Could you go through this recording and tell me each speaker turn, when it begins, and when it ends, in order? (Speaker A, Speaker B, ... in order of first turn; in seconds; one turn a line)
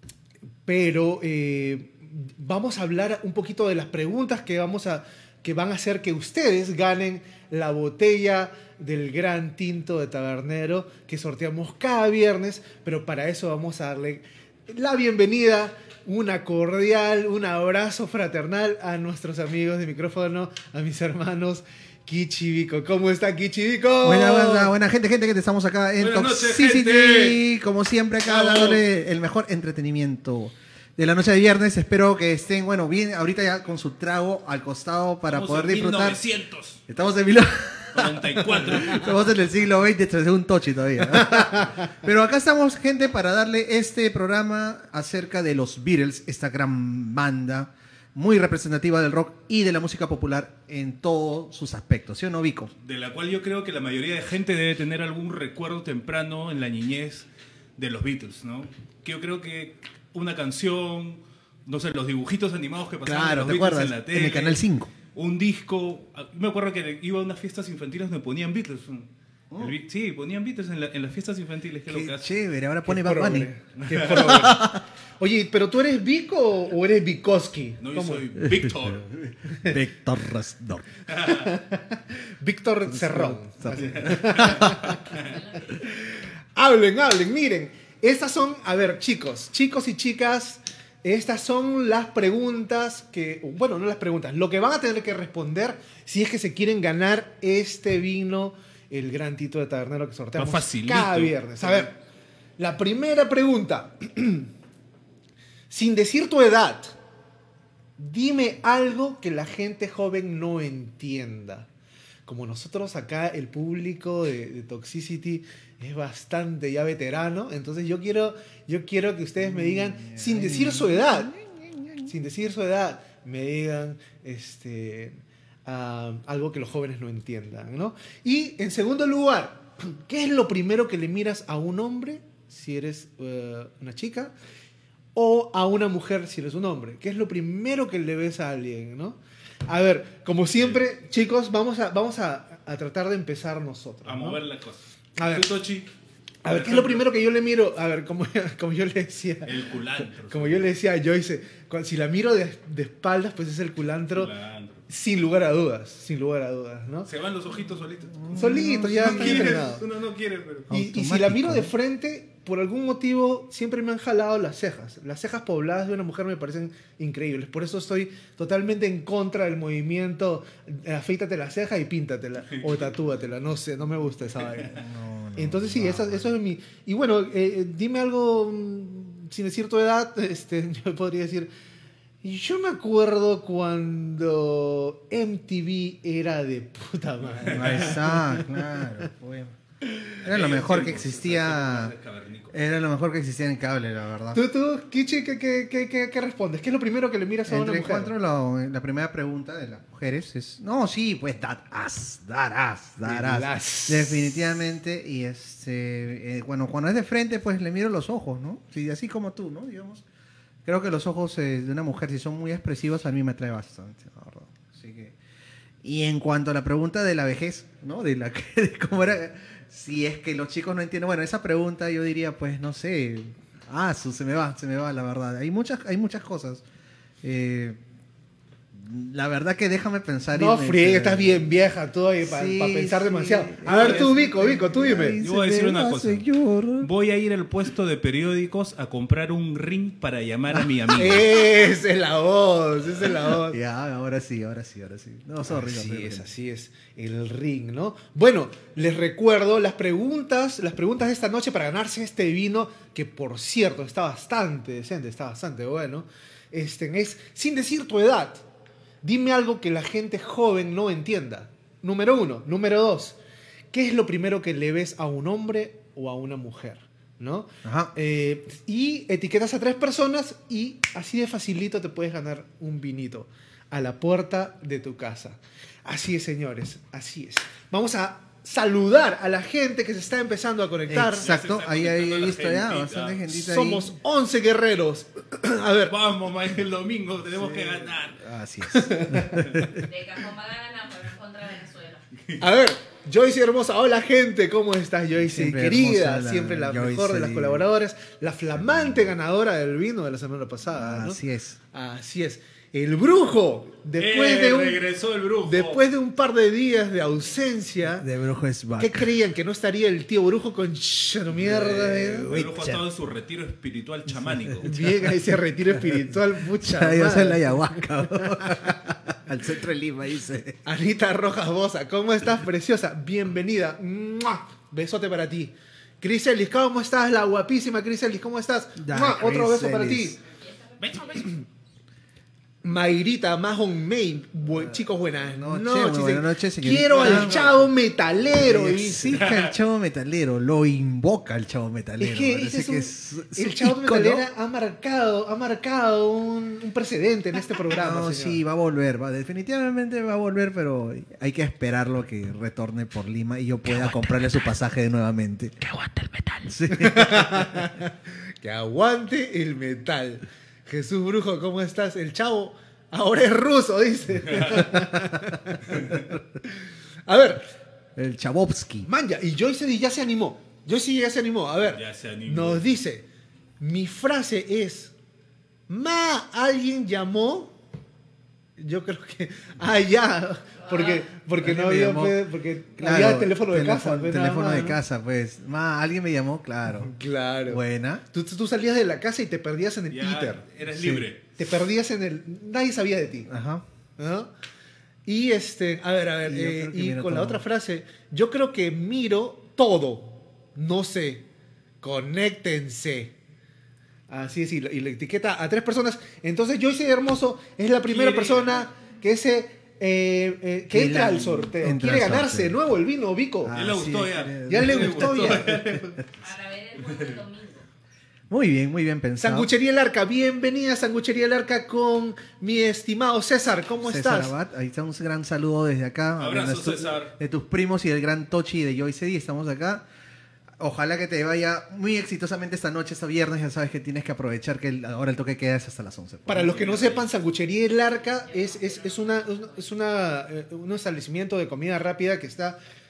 Speaker A: 0.7-24.7
Speaker B: 24.0-36.2
Speaker C: 26.0-27.4
Speaker C: 28.2-28.8
Speaker C: 35.3-36.8
Speaker B: 36.9-52.7
Speaker C: 37.9-39.2
Speaker A: 41.4-41.7
Speaker C: 52.8-64.6
Speaker B: 63.0-64.9
Speaker C: 65.1-72.3
Speaker B: 69.5-69.8
Speaker B: 71.9-73.5
Speaker A: 72.8-78.2
Speaker C: 73.8-74.5
Speaker B: 74.1-74.8
Speaker C: 77.8-79.0
Speaker B: 78.4-80.9
Speaker C: 81.1-81.5
Speaker A: 81.3-85.0
Speaker B: 82.9-85.0
Speaker C: 83.7-85.3
Speaker D: 85.3-85.7
Speaker A: 86.5-102.0
Speaker C: 100.3-101.9
Speaker A: 102.6-104.5
Speaker A: 105.7-107.0
Speaker A: 108.0-111.7
Speaker A: 112.2-121.3
Speaker B: 119.4-122.1
Speaker A: 122.0-134.3
Speaker A: 135.1-144.4
Speaker C: 144.0-145.9
Speaker A: 145.2-145.5
Speaker A: 146.4-149.5
Speaker C: 146.4-147.0
Speaker C: 149.4-150.7
Speaker A: 150.2-154.3
Speaker C: 154.1-154.8
Speaker A: 154.9-157.1
Speaker C: 157.1-160.7
Speaker B: 158.1-159.6
Speaker A: 158.3-159.8
Speaker B: 160.7-161.7
Speaker A: 160.7-174.8
Speaker B: 174.7-176.3
Speaker A: 175.4-181.5
Speaker A: 182.2-188.8
Speaker C: 187.4-188.0
Speaker B: 187.4-189.6
Speaker C: 190.2-192.6
Speaker B: 190.2-191.9
Speaker B: 192.5-194.4
Speaker A: 194.3-198.1
Speaker B: 197.5-210.0
Speaker A: 203.0-204.3
Speaker B: 210.7-215.2
Speaker B: 215.8-226.6
Speaker B: 227.2-227.8
Speaker B: 228.7-231.5
Speaker A: 230.3-235.2
Speaker B: 232.2-236.9
Speaker C: 233.7-234.1
Speaker C: 235.2-236.2
Speaker C: 236.8-241.3
Speaker B: 240.5-241.2
Speaker A: 241.0-243.6
Speaker B: 243.4-246.2
Speaker A: 245.4-258.4
Speaker A: 259.0-263.2
Speaker A: 263.7-281.2
Speaker B: 267.6-267.9
Speaker B: 280.9-283.9
Speaker C: 281.2-283.3
Speaker A: 283.3-285.9
Speaker C: 285.9-288.2
Speaker B: 288.2-289.8
Speaker A: 288.7-289.7
Speaker D: 289.8-292.0
Speaker A: 292.4-301.2
Speaker B: 295.1-297.6
Speaker B: 300.7-301.6
Speaker A: 301.7-304.8
Speaker C: 304.0-305.8
Speaker A: 305.5-308.1
Speaker B: 308.0-309.1
Speaker A: 308.8-312.3
Speaker C: 311.5-314.7
Speaker B: 311.5-312.9
Speaker B: 314.1-315.1
Speaker A: 314.6-317.7
Speaker B: 316.6-320.6
Speaker A: 320.6-330.2
Speaker B: 328.8-330.2
Speaker D: 330.4-331.3
Speaker A: 332.6-339.2
Speaker B: 335.2-337.7
Speaker C: 337.0-337.4
Speaker B: 338.3-344.2
Speaker C: 339.2-339.5
Speaker A: 342.0-348.4
Speaker B: 347.7-355.6
Speaker C: 353.7-354.2
Speaker C: 355.6-356.5
Speaker B: 356.4-357.4
Speaker A: 356.7-366.1
Speaker C: 364.3-364.6
Speaker B: 365.7-366.2
Speaker A: 367.1-367.4
Speaker B: 367.9-368.9
Speaker A: 368.8-373.0
Speaker C: 371.7-372.6
Speaker A: 373.6-374.9
Speaker A: 375.7-377.5
Speaker A: 378.6-384.8
Speaker D: 380.7-380.9
Speaker B: 381.4-382.2
Speaker B: 382.8-386.9
Speaker A: 386.7-390.5
Speaker B: 387.5-388.0
Speaker C: 389.9-391.2
Speaker B: 390.7-391.1
Speaker A: 391.4-393.3
Speaker B: 393.3-393.6
Speaker A: 394.0-394.3
Speaker A: 395.1-401.2
Speaker B: 396.2-397.4
Speaker A: 401.8-403.1
Speaker A: 404.1-413.5
Speaker C: 407.9-408.7
Speaker B: 410.7-412.6
Speaker B: 413.4-416.0
Speaker C: 413.5-416.0
Speaker A: 414.5-415.5
Speaker D: 416.2-417.6
Speaker B: 418.3-419.5
Speaker A: 419.2-424.3
Speaker B: 423.8-429.8
Speaker C: 426.2-427.1
Speaker B: 430.6-436.6
Speaker A: 436.3-442.6
Speaker C: 436.4-437.1
Speaker D: 438.2-439.6